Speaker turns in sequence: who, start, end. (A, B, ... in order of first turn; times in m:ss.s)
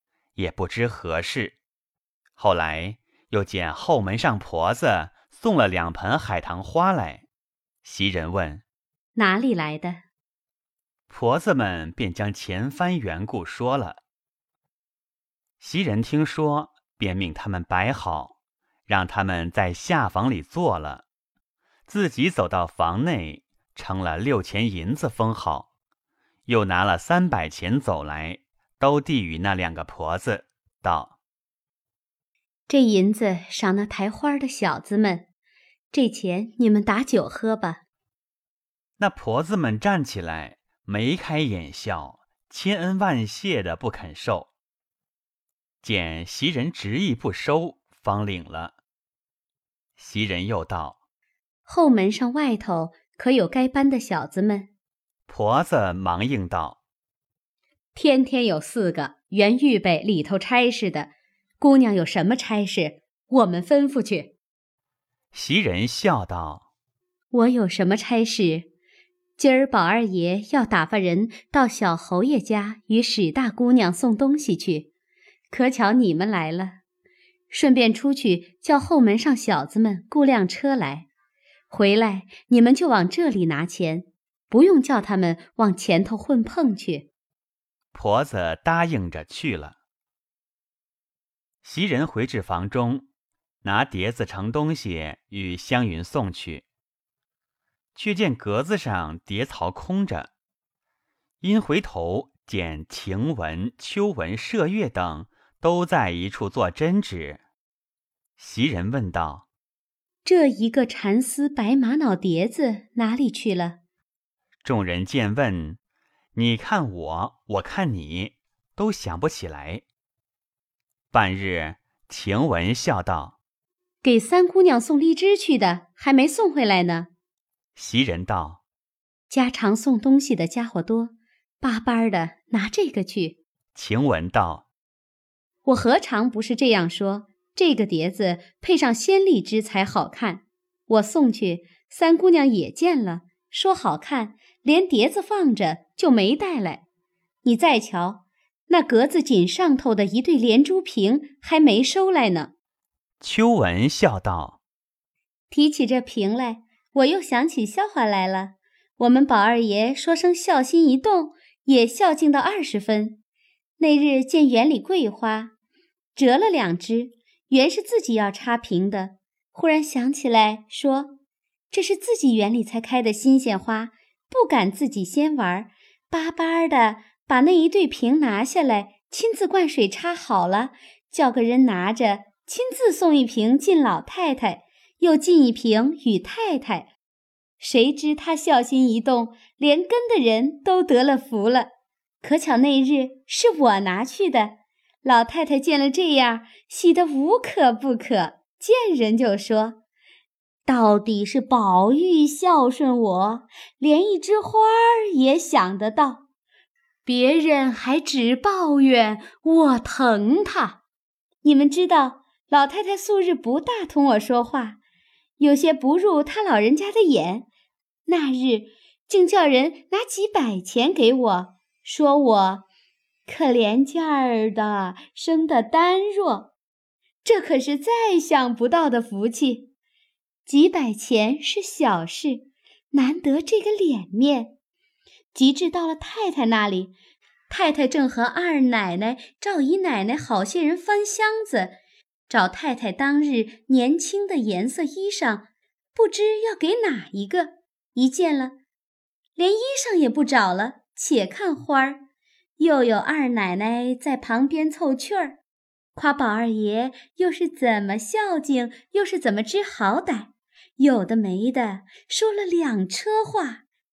0:00.4-0:01.5 A
0:02.4-0:07.2 A
0:07.8-0:08.6 A
0:09.1-0:10.0 B
0:11.1-0:14.0 A
0:15.6-0:18.3 A
0:18.9-0:21.0 A
0:21.9-0:25.7 A
0:26.4-0:31.1 A
0:32.7-0:35.3 B
0:35.9-0:37.8 B
0:39.0-0:44.5 A
0:45.8-0:48.7 A
0:50.0-0:51.0 A
0:51.6-0:54.7 B
0:55.3-0:56.8 A
0:57.9-1:04.3 B
1:05.3-1:06.6 A
1:07.3-1:08.7 B
1:09.4-1:14.9 B
1:15.5-1:16.8 B
1:17.5-1:21.1 B
1:21.7-1:27.1 B
1:27.9-1:29.8 A
1:31.6-1:33.0 A
1:33.6-1:36.6 A
1:37.9-1:40.3 A
1:41.4-1:47.4 A
1:48.4-1:49.4 A
1:50.2-1:53.8 B
1:54.6-1:55.8 A
1:56.3-1:59.8 A
2:01.1-2:03.4 A
2:04.0-2:07.1 B
2:07.8-2:08.6 A
2:09.3-2:13.4 B
2:13.7-2:14.6 A
2:15.6-2:26.8 B
2:27.4-2:32.5 B
2:33.2-2:34.6 A
2:35.5-2:43.2 B
2:43.8-2:45.5 B
2:46.1-2:51.2 B
2:51.7-3:06.9 B
3:07.6-3:11.7 B
3:12.2-3:19.8 B
3:20.6-3:26.2 B
3:27.0-3:30.8 B
3:31.4-3:34.8 B
3:35.4-3:37.5 B
3:38.0-3:42.6 B
3:43.2-3:46.5 B
3:47.2-3:49.7 B
3:50.4-3:54.5 B
3:55.3-3:56.9 B
3:57.5-4:01.8 B
4:02.3-4:08.6 B
4:09.4-4:12.0 B
4:12.6-4:15.4 B
4:15.9-4:23.6 B